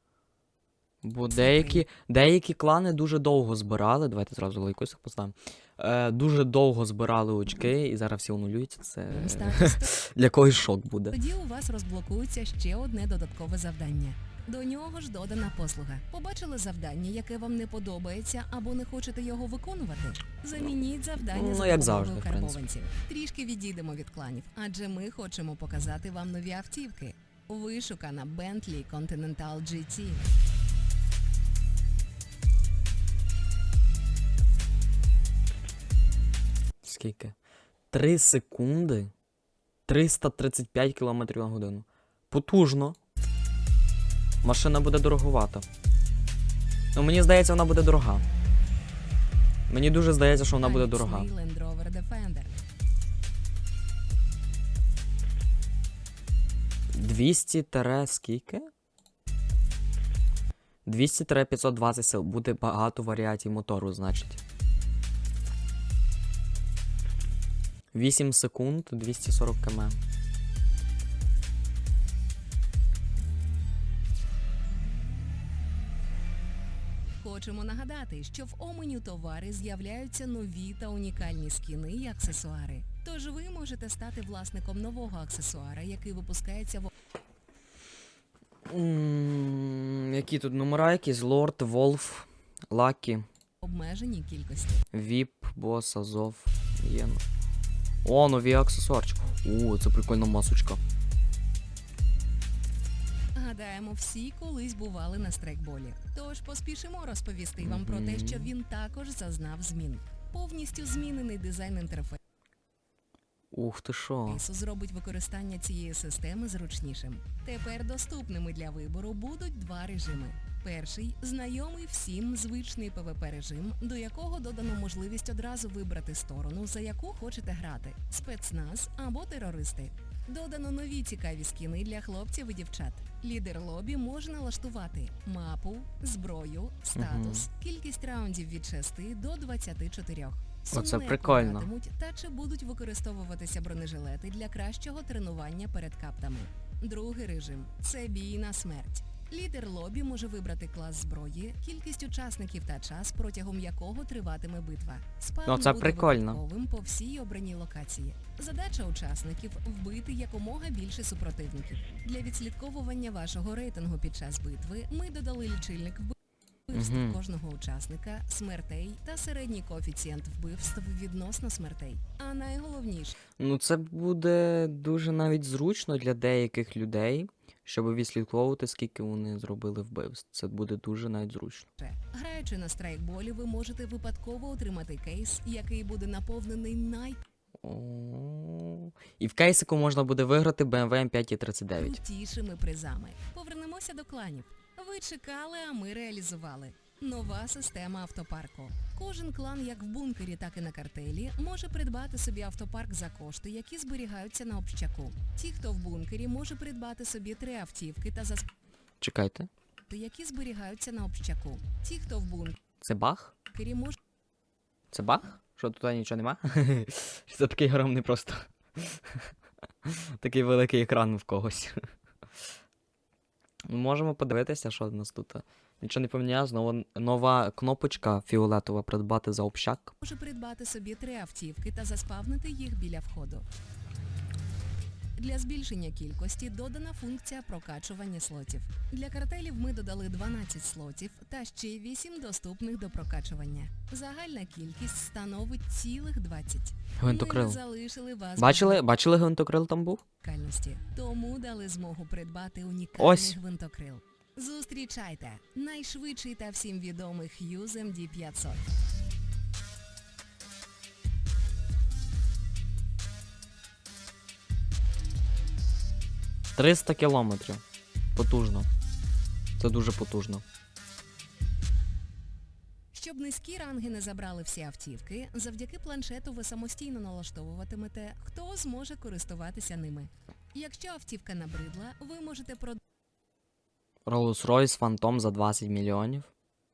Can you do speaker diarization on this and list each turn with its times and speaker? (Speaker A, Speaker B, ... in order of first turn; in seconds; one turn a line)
Speaker A: 1.0-11.2
Speaker B: 1.3-1.8
Speaker B: 9.1-9.9
Speaker B: 11.1-30.2
Speaker A: 21.3-22.6
Speaker A: 36.8-37.3
Speaker A: 37.9-39.1
Speaker A: 39.9-43.0
Speaker A: 44.4-45.6
Speaker A: 46.9-48.2
Speaker A: 49.7-51.3
Speaker B: 50.5-52.6
Speaker A: 56.9-58.6
Speaker A: 60.9-64.4
Speaker A: 67.9-70.0
Speaker B: 77.2-86.9
Speaker A: 88.7-93.2
Speaker B: 93.6-94.8
Speaker A: 94.9-97.2
Speaker A: 98.0-100.8
Speaker B: 103.3-112.2
Speaker A: 107.6-108.5
Speaker A: 113.5-114.4
Speaker B: 114.2-166.1
Speaker A: 136.9-137.4
Speaker A: 140.7-141.7
Speaker A: 155.5-156.4
Speaker B: 166.7-173.2
Speaker A: 166.7-167.2
Speaker A: 173.4-181.7
Speaker B: 181.8-187.2
Speaker A: 187.6-192.0
Speaker B: 191.8-208.5
Speaker A: 209.0-209.5
Speaker B: 209.9-212.6
Speaker A: 212.8-213.3
Speaker B: 213.5-214.0
Speaker A: 214.9-219.2
Speaker A: 219.8-221.8
Speaker A: 223.7-229.9
Speaker B: 230.0-233.4
Speaker B: 235.2-248.8
Speaker A: 247.0-247.6
Speaker A: 248.4-250.0
Speaker B: 250.2-258.7
Speaker A: 253.0-253.4
Speaker A: 266.6-267.6
Speaker A: 268.1-268.7
Speaker A: 269.6-270.4
Speaker B: 272.9-282.8
Speaker A: 284.1-286.3